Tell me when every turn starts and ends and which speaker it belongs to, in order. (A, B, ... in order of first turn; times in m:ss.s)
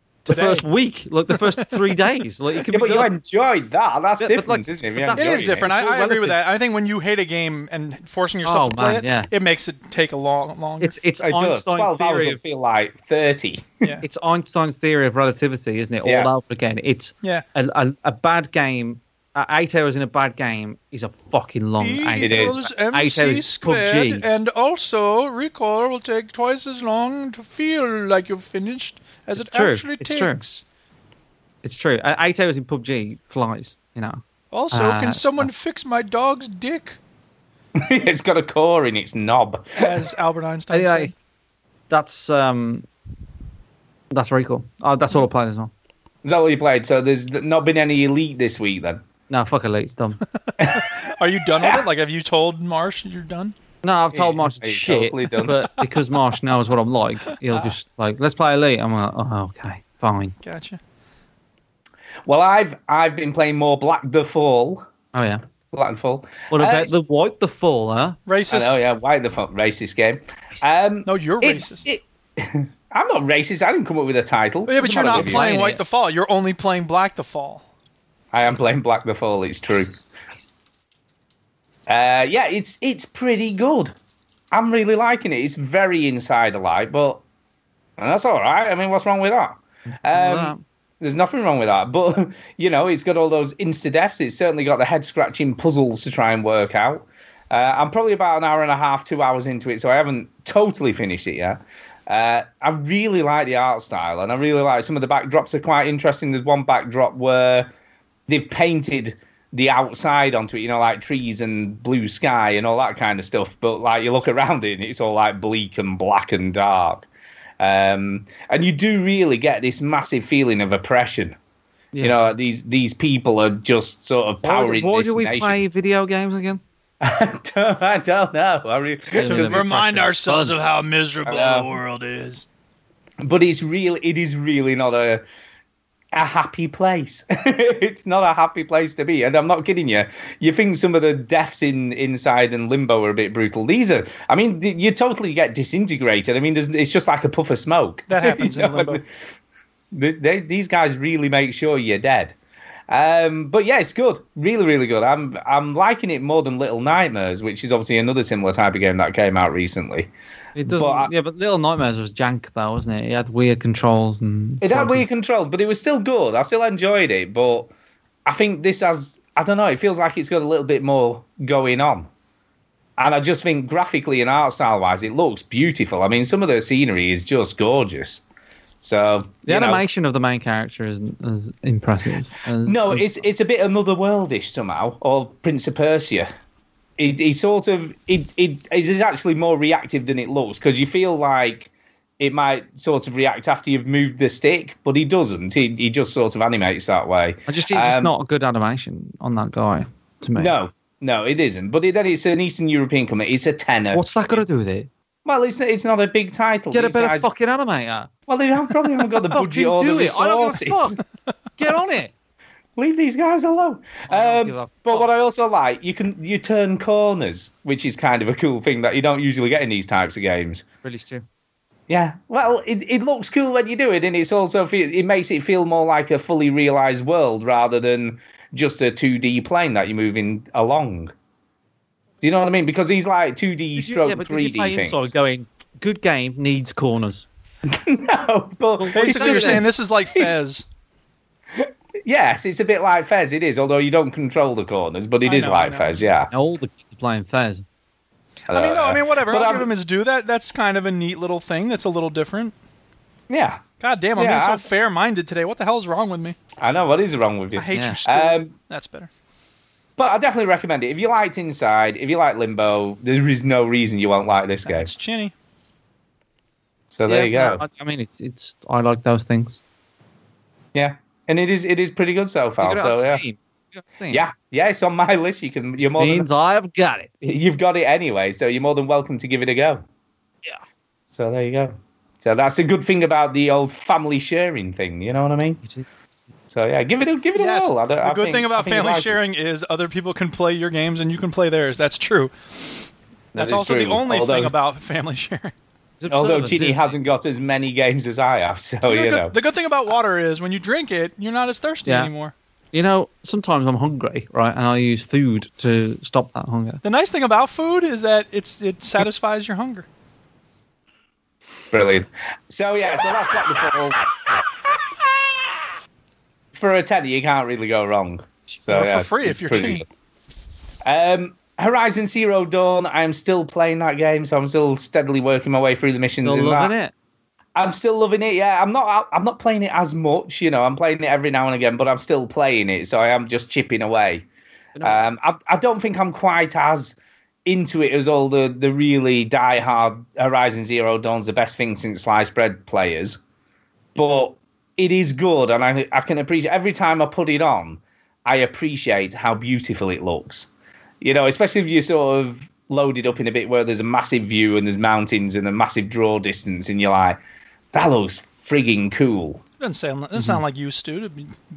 0:00.2-0:00.6 A
0:00.3-0:03.1 B
0:01.3-0:01.8 A
0:02.7-0:05.6 C
0:04.2-0:06.4 B
0:05.2-0:10.9 A
0:08.4-0:09.3 B
0:10.8-0:12.4 B
0:11.2-0:13.8 C
0:14.0-0:24.2 B
0:16.0-0:16.3 C
0:21.8-0:30.6 A
0:22.2-0:22.6 C
0:29.4-0:30.4 B
0:31.6-0:35.5 B
0:34.5-0:37.0 A
0:37.8-0:39.8 C
0:39.8-0:41.1 A
0:40.7-0:41.1 B
0:41.9-0:42.9 B
0:44.1-0:45.7 B
0:46.2-0:49.0 C
0:49.3-0:50.2 B
0:50.6-0:50.8 C
0:50.7-0:53.6 A
0:53.8-1:00.3 B
0:54.1-0:55.6 C
1:00.4-1:00.8 A
1:02.3-1:04.9 C
1:05.1-1:05.4 B
1:05.7-1:06.9 C
1:06.5-1:08.2 B
1:08.3-1:08.8 A
1:08.5-1:15.5 C
1:11.1-1:11.9 A
1:14.7-1:17.6 A
1:14.9-1:15.8 B
1:18.3-1:19.9 C
1:21.9-1:24.0 C
1:24.5-1:27.2 C
1:28.0-1:47.7 C
1:30.1-1:30.6 B
1:48.3-1:57.1 C
1:57.6-2:01.4 C
2:01.9-2:02.2 B
2:02.0-2:05.6 C
2:04.4-2:06.6 B
2:07.0-2:09.7 C
2:09.2-2:10.6 B
2:09.2-2:12.4 A
2:11.3-2:11.7 C
2:13.2-2:15.2 C
2:16.1-2:29.0 C
2:28.1-2:29.0 A
2:29.9-2:32.4 C
2:32.9-2:40.1 C
2:40.6-2:45.1 B
2:40.6-2:41.1 C
2:44.6-2:47.7 C
2:48.3-2:52.1 C
2:53.0-2:58.2 C
2:58.8-2:59.8 C
2:59.5-3:03.2 B
3:02.6-3:06.3 C
3:07.0-3:18.1 C
3:17.5-3:20.5 B
3:20.4-3:24.4 C
3:23.9-3:24.9 B
3:25.2-3:27.3 C
3:26.7-3:28.1 B
3:28.3-3:31.0 C
3:29.3-3:31.0 B
3:31.6-3:32.1 B
3:32.8-3:40.6 C
3:34.1-3:35.1 B
3:40.8-3:41.2 B
3:41.9-3:51.1 C
3:52.2-3:55.1 C
3:53.8-3:57.3 B
3:57.7-4:00.3 C
3:58.8-3:59.7 B
3:58.9-4:00.6 A
4:01.5-4:06.3 C
4:05.2-4:06.0 A
4:06.3-4:07.6 B
4:08.5-4:09.7 C
4:08.5-4:12.5 A
4:13.3-4:13.6 C
4:13.8-4:16.4 A
4:14.2-4:14.7 C
4:16.6-4:18.5 C
4:17.6-4:19.1 A
4:17.7-4:18.0 B
4:20.0-4:24.9 C
4:24.7-4:25.3 A
4:26.9-4:27.6 C
4:27.1-4:29.6 B
4:30.7-4:33.2 C
4:32.6-4:34.2 B
4:34.1-4:36.3 C
4:35.8-4:37.1 B
4:37.2-4:39.8 C
4:41.1-4:45.6 C
4:45.6-4:45.9 B
4:46.5-4:49.2 C
4:47.4-4:55.5 A
4:53.3-4:54.5 C
4:56.0-4:56.8 B
4:56.1-4:59.4 C
4:58.9-5:02.3 A
5:02.7-5:06.8 B
5:06.8-5:09.9 A
5:11.7-5:14.0 C
5:16.6-5:19.8 C
5:18.7-5:19.8 A
5:20.8-5:26.7 C
5:26.2-5:26.9 B
5:27.6-5:34.2 C
5:34.8-5:35.1 B
5:34.8-5:43.2 C
5:44.0-5:50.5 C
5:51.0-5:57.2 C
5:57.7-5:59.4 C
5:59.6-6:01.4 A
6:00.2-6:00.4 B